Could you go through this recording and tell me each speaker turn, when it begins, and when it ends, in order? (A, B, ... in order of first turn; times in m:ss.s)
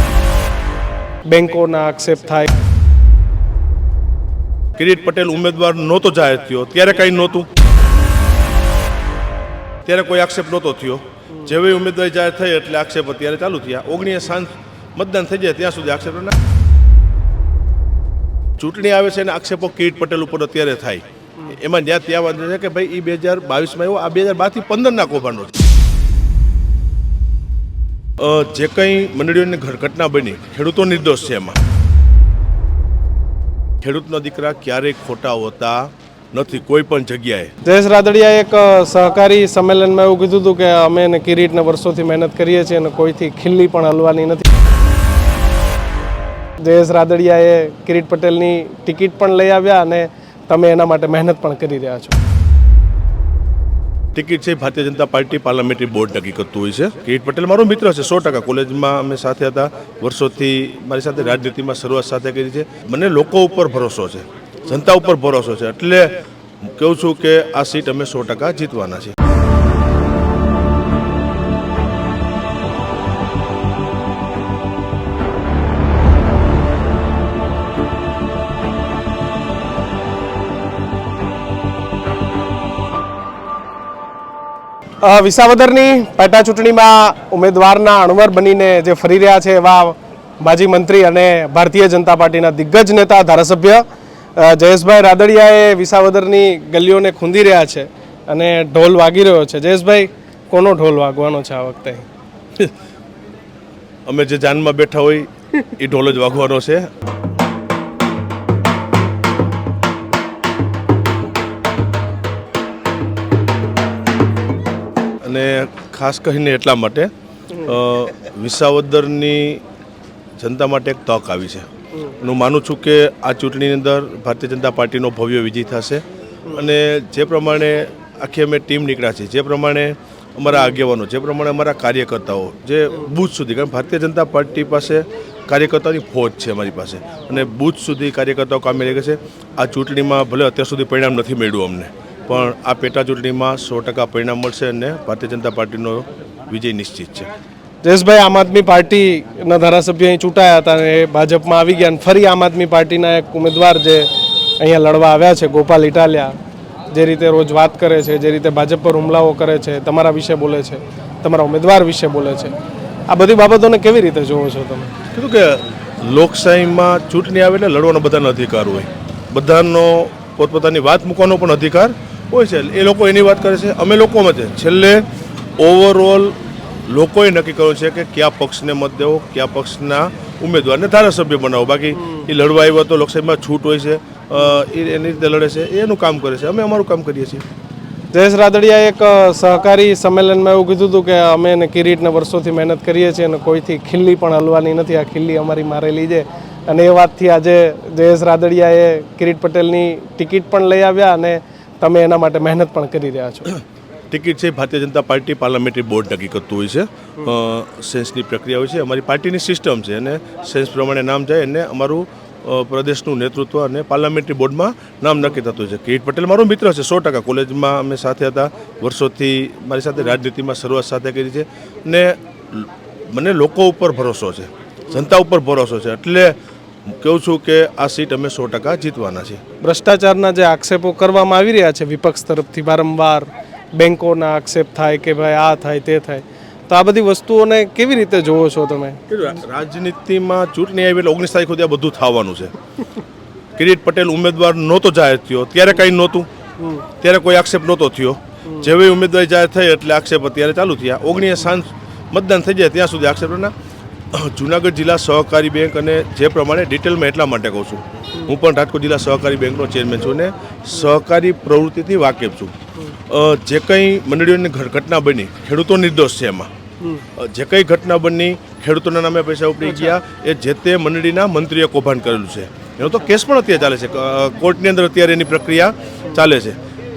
0:01.2-0:02.6 A
0:04.8-0:07.5 B
0:09.8-0:16.3 B
0:18.6-0:25.6 B
0:28.2-0:31.6 B
0:33.8-0:37.5 B
0:37.6-0:44.5 A
0:46.6-0:52.2 A
0:54.2-1:09.1 B
1:25.0-1:33.8 A
1:34.4-1:42.1 A
1:44.0-1:46.8 B
1:55.2-1:59.6 B
2:00.4-2:27.3 B
2:27.8-2:36.3 A
2:36.9-2:42.5 A
2:43.1-2:44.9 A
2:45.1-2:55.0 B
2:55.6-3:07.4 B
3:08.1-3:23.6 A
3:24.1-3:46.4 B
3:46.9-3:49.4 B
3:49.6-3:59.0 A
3:59.1-4:02.5 B
4:03.6-4:06.3 B
4:07.0-4:13.5 B
4:14.1-4:26.5 B
4:27.1-4:36.6 B